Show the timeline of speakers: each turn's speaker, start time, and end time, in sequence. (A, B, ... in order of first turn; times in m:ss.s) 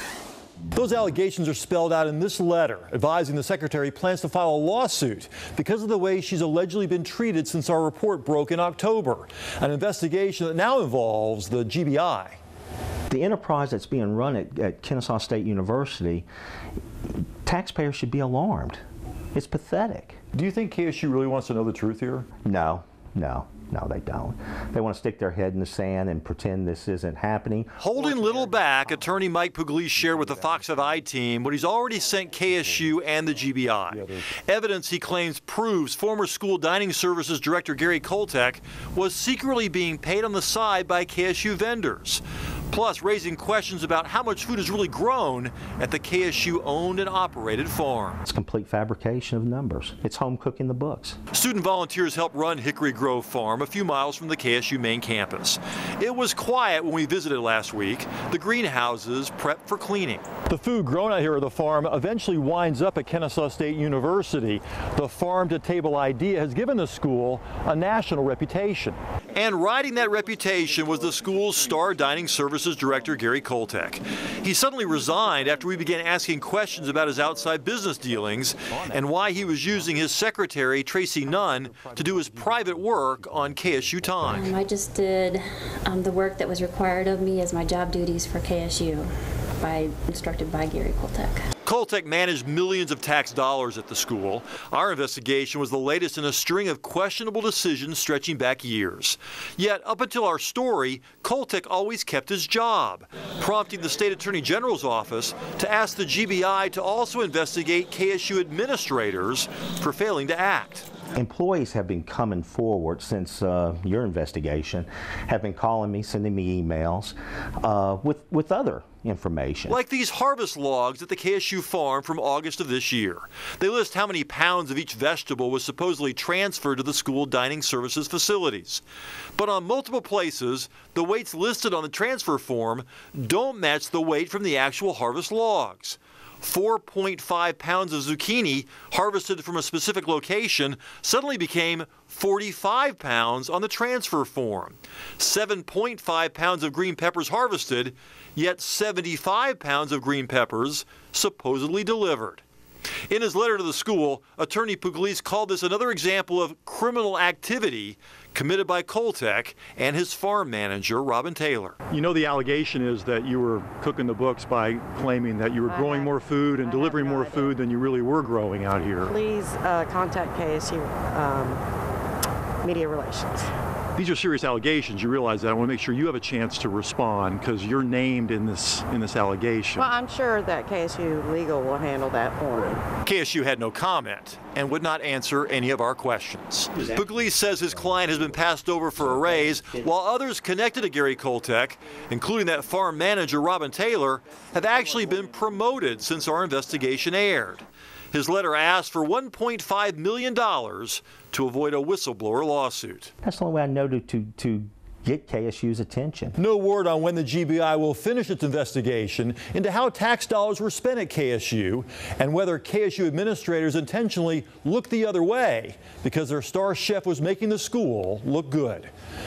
0:00.7-0:12.4 A
0:13.1-0:16.2 B
0:17.4-0:18.8 B
0:19.3-0:20.2 B
0:20.3-0:22.3 A
0:22.4-0:27.9 B
0:27.8-0:48.2 A
0:48.2-0:51.2 B
0:51.3-1:24.5 A
1:24.2-1:31.4 C
1:31.6-1:50.9 A
1:51.1-1:59.8 B
1:59.7-2:08.8 A
2:09.4-2:32.4 A
2:33.1-2:49.1 A
2:45.7-2:47.6 D
2:49.0-2:51.6 D
2:52.6-2:53.5 D
2:54.0-2:59.9 A
2:59.8-3:02.9 D
3:03.0-3:23.1 A
3:06.7-3:08.3 B
3:09.0-3:09.9 B
3:23.2-3:26.4 B
3:26.3-3:38.9 A